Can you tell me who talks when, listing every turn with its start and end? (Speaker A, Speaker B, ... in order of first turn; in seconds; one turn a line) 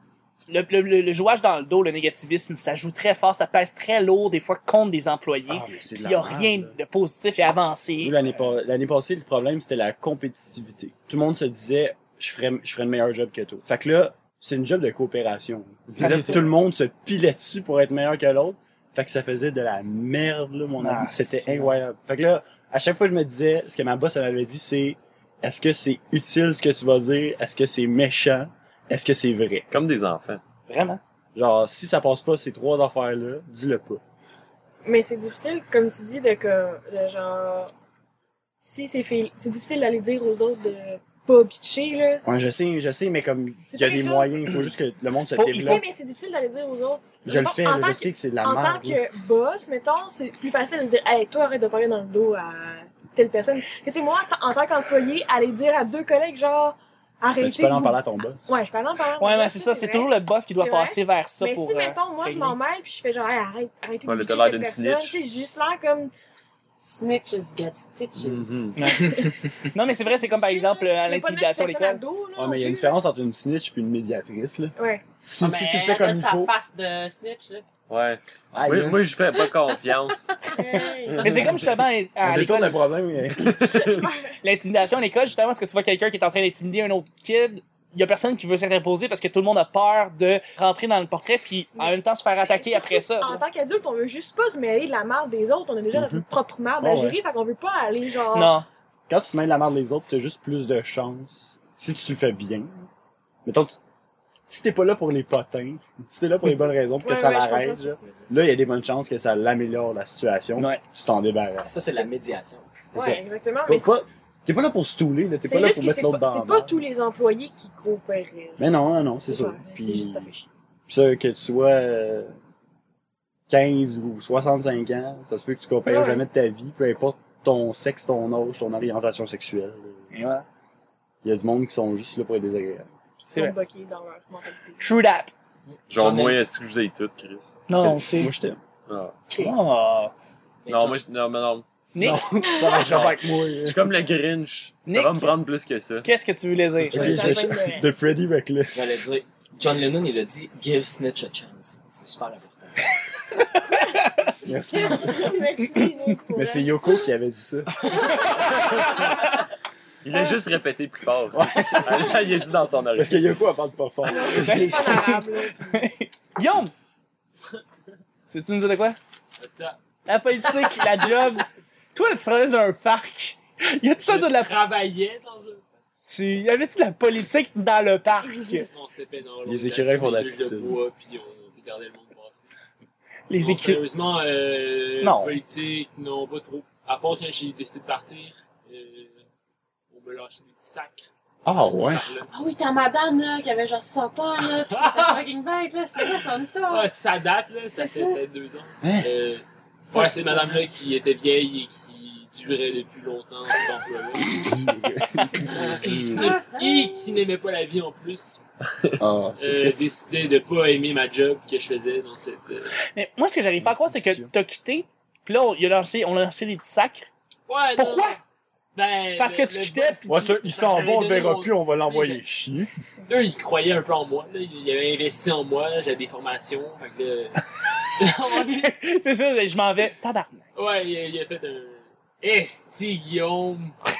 Speaker A: 0.5-8.2
Speaker B: 5.5-6.8
Speaker B: 8.0-29.7
Speaker A: 16.0-16.5
Speaker A: 20.8-21.7
Speaker C: 29.7-30.4
Speaker A: 30.7-31.0
Speaker B: 31.3-34.0
Speaker D: 34.8-37.7
Speaker D: 38.6-42.2
Speaker B: 42.2-45.9
Speaker D: 43.7-44.6
Speaker A: 45.3-45.9
Speaker D: 45.5-66.1
Speaker B: 47.2-49.0
Speaker B: 57.4-58.4
Speaker A: 59.2-62.6
Speaker C: 64.0-65.2
Speaker E: 66.8-68.7
Speaker C: 68.2-68.9
Speaker A: 68.8-72.0
Speaker D: 70.1-73.0
Speaker B: 72.3-76.5
Speaker D: 74.8-75.0
Speaker E: 75.4-77.7
Speaker C: 77.9-80.3
Speaker B: 78.5-79.1
Speaker E: 79.3-80.9
Speaker D: 80.5-81.3
Speaker C: 81.1-81.6
Speaker A: 81.2-82.8
Speaker B: 82.2-83.8
Speaker C: 83.4-84.1
Speaker D: 83.7-84.3
Speaker A: 84.4-93.4
Speaker D: 91.8-98.6
Speaker B: 95.9-96.2
Speaker B: 96.8-97.2
Speaker A: 98.3-98.7
Speaker B: 99.1-102.9
Speaker B: 103.4-103.8
Speaker B: 104.5-111.7
Speaker D: 107.0-108.3
Speaker A: 110.6-110.8
Speaker F: 111.6-112.7
Speaker D: 112.9-113.9
Speaker B: 112.9-116.8
Speaker D: 115.4-120.5
Speaker B: 118.6-120.3
Speaker B: 120.9-122.3
Speaker B: 123.5-130.1
Speaker D: 125.8-126.2
Speaker A: 130.1-130.4
Speaker B: 131.2-132.8
Speaker D: 133.2-135.0
Speaker A: 133.3-133.6
Speaker A: 134.8-135.3
Speaker F: 135.7-136.4
Speaker C: 135.9-137.6
Speaker A: 137.7-138.3
Speaker B: 137.8-138.6
Speaker C: 138.9-139.2
Speaker A: 139.3-140.1
Speaker F: 140.6-141.0
Speaker C: 140.7-141.7
Speaker A: 141.9-142.3
Speaker B: 142.0-144.0
Speaker D: 142.4-143.0
Speaker C: 142.8-146.1
Speaker A: 144.8-145.4
Speaker A: 146.0-147.3
Speaker B: 146.8-149.0
Speaker D: 146.9-147.9
Speaker F: 148.7-152.9
Speaker D: 153.7-157.1
Speaker A: 154.0-154.3
Speaker B: 154.4-155.7
Speaker A: 155.6-156.1
Speaker B: 156.3-157.7
Speaker D: 157.8-159.4
Speaker C: 158.2-159.1
Speaker C: 160.0-163.3
Speaker B: 161.3-162.3
Speaker B: 162.9-165.0
Speaker D: 164.0-165.9
Speaker A: 164.3-166.7
Speaker A: 168.3-169.0
Speaker G: 169.4-169.8
Speaker A: 170.1-174.6
Speaker G: 174.0-175.7
Speaker A: 176.1-178.7
Speaker G: 178.6-182.5
Speaker B: 179.4-180.8
Speaker A: 183.3-183.8
Speaker G: 183.3-189.2
Speaker A: 185.0-185.4
Speaker G: 189.9-192.3
Speaker B: 191.4-192.0
Speaker E: 192.3-196.9
Speaker G: 194.7-195.2
Speaker G: 196.0-204.7
Speaker D: 197.7-197.9
Speaker E: 197.7-198.1
Speaker B: 198.8-199.1
Speaker B: 204.3-206.3
Speaker G: 205.4-208.4
Speaker E: 205.4-207.2
Speaker B: 209.0-209.9
Speaker G: 209.4-212.7
Speaker A: 212.9-217.1
Speaker B: 213.6-214.3
Speaker G: 217.5-218.2
Speaker A: 217.8-218.2
Speaker G: 218.7-222.2
Speaker A: 219.2-220.3
Speaker B: 220.1-222.7
Speaker G: 223.1-227.4
Speaker G: 228.0-228.7
Speaker A: 228.2-230.5
Speaker G: 230.5-233.8